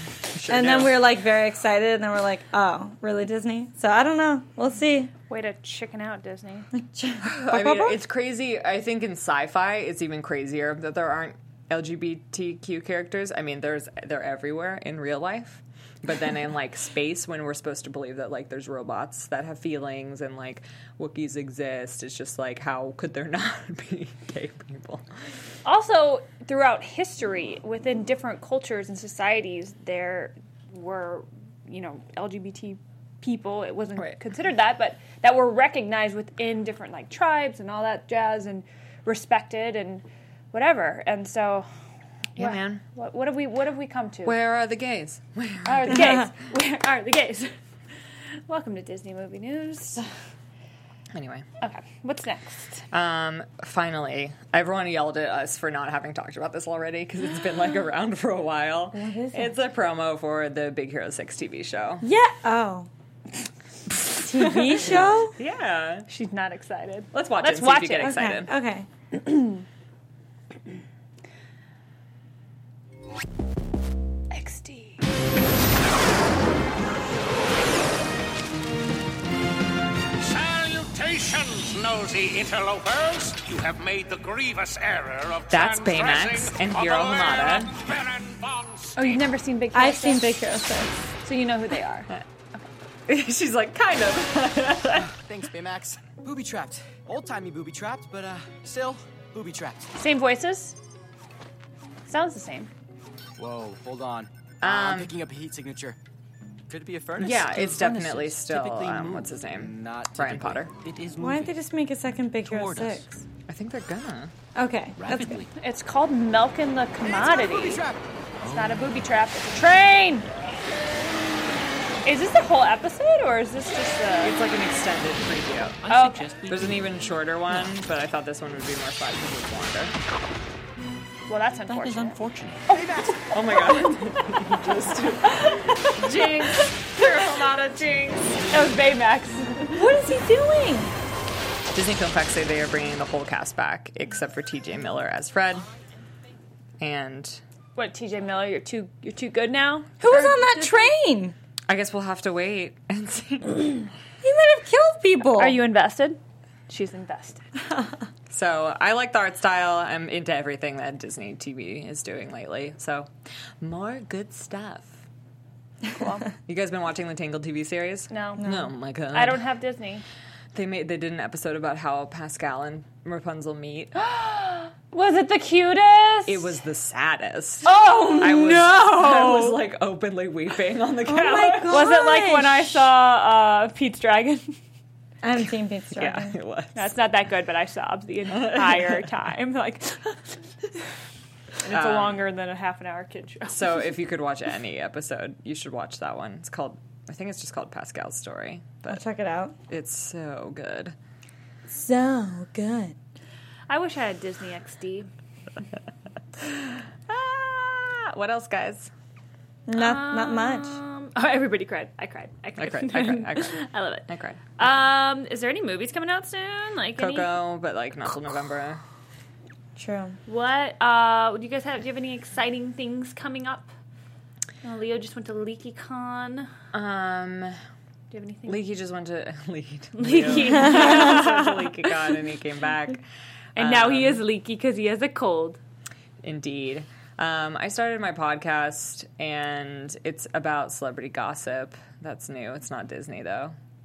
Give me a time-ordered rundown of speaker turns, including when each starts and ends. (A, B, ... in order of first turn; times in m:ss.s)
0:00.3-0:01.0 A
0:00.5-0:05.1 B
0:05.3-0:06.7 C
0:06.8-0:08.0 B
0:07.2-0:25.1 A
0:25.6-0:41.7 C
0:42.4-0:42.8 A
0:42.4-0:44.4 C
0:44.2-0:46.2 A
0:45.7-0:47.5 C
0:45.9-0:46.2 B
0:48.5-0:50.0 C
0:51.2-0:51.5 A
0:51.6-0:52.8 C
0:52.9-1:02.0 A
0:58.9-0:59.5 B
1:02.0-1:02.9 B
1:04.2-1:06.1 A
1:04.2-1:05.3 B
1:06.1-1:08.1 C
1:07.1-1:08.5 A
1:08.0-1:08.9 B
1:09.2-1:09.5 C
1:14.3-1:15.0 C
1:20.2-1:29.2 D
1:25.5-1:27.9 A
1:29.0-1:30.4 C
1:29.7-1:31.1 B
1:31.2-1:32.1 C
1:33.1-1:35.1 A
1:35.1-1:40.0 E
1:40.0-1:40.8 C
1:42.1-1:42.7 C
1:43.4-1:46.0 E
1:44.6-1:45.1 A
1:46.7-1:51.6 E
1:47.2-1:50.7 A
1:51.2-1:53.2 B
1:52.4-1:53.1 E
1:53.5-1:54.3 A
1:54.6-1:55.4 B
1:55.0-1:55.5 E
1:55.6-1:57.8 C
1:57.0-1:58.9 E
1:58.4-2:00.3 C
2:02.0-2:04.4 C
2:04.2-2:10.0 A
2:05.9-2:06.4 C
2:05.9-2:06.9 E
2:11.3-2:12.2 C
2:11.7-2:12.4 B
2:12.3-2:13.6 E
2:12.7-2:13.8 C
2:13.3-2:18.5 A
2:15.3-2:17.0 C
2:18.5-2:19.9 C
2:19.7-2:20.9 B
2:21.7-2:25.7 A
2:26.8-2:27.4 A
2:27.8-2:30.9 C
2:30.0-2:31.4 B
2:31.7-2:33.9 A
2:34.2-2:35.6 B
2:35.3-2:37.4 C
2:38.3-2:45.0 A
2:45.9-2:46.3 C
2:46.5-2:49.4 A
2:48.1-2:48.5 C
2:48.4-2:48.7 B
2:49.1-2:50.0 C
2:50.5-2:54.0 A
2:54.0-2:56.6 C
2:56.3-3:01.8 A
2:57.6-2:59.6 C
3:01.0-3:02.9 B
3:01.7-3:04.5 C
3:05.2-3:06.4 B
3:05.9-3:06.9 A
3:06.8-3:10.8 C
3:08.4-3:09.0 A
3:11.6-3:13.9 C
3:11.7-3:12.2 A
3:13.5-3:19.0 A
3:18.9-3:19.5 B
3:19.7-3:21.0 A
3:21.7-3:23.0 B
3:23.7-3:25.1 C
3:26.4-3:28.9 A
3:29.7-3:30.8 B
3:29.7-3:34.1 C
3:32.6-3:34.5 A
3:34.6-3:37.3 C
3:37.0-3:38.8 A
3:39.8-3:40.2 B
3:40.3-3:43.7 C
3:44.6-3:46.5 C
3:46.7-3:47.5 A
3:48.1-3:48.6 C
3:48.5-3:53.0 A
3:50.0-3:51.8 C
3:50.6-3:51.2 B
3:53.6-3:55.6 C
3:53.6-3:54.2 A
3:56.2-4:03.6 A